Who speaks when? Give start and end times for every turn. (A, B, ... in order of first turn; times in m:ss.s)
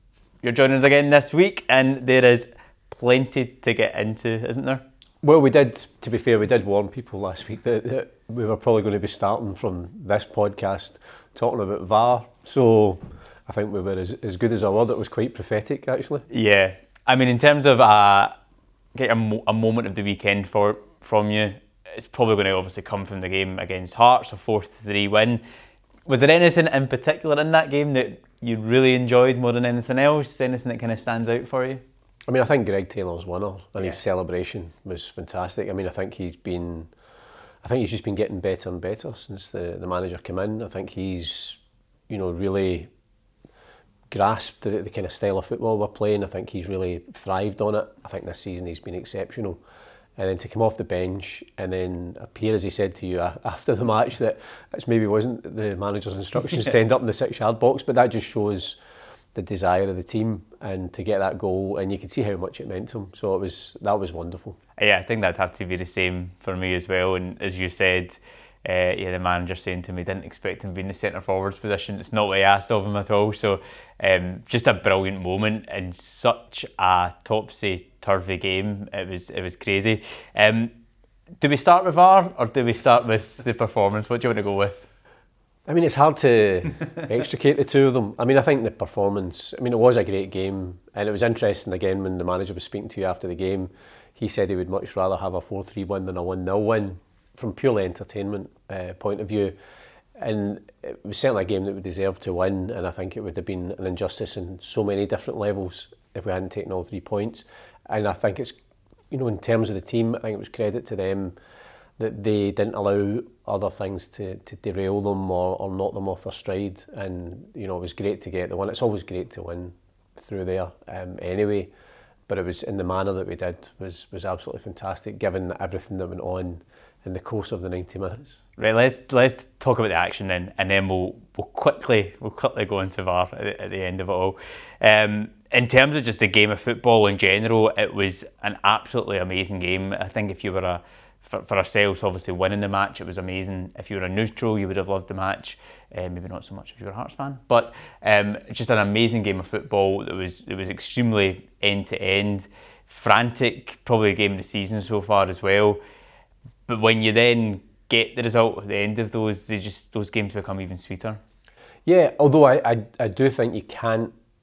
0:00.4-0:04.8 A
0:05.2-0:16.2 B
0:16.3-0:18.4 A
0:18.9-0:25.4 A
0:26.1-0:31.8 A
0:32.3-0:36.9 B
0:37.6-0:42.9 B
0:44.1-0:49.6 B
0:50.2-0:58.8 B
0:59.3-1:04.6 B
1:04.8-1:20.8 A
1:21.4-1:24.9 A
1:25.6-1:39.6 B
1:40.2-1:48.6 B
1:49.1-1:51.4 B
1:52.0-2:01.7 B
2:02.3-2:08.4 B
2:08.6-2:35.8 A
2:36.7-2:41.2 A
2:41.8-2:44.1 B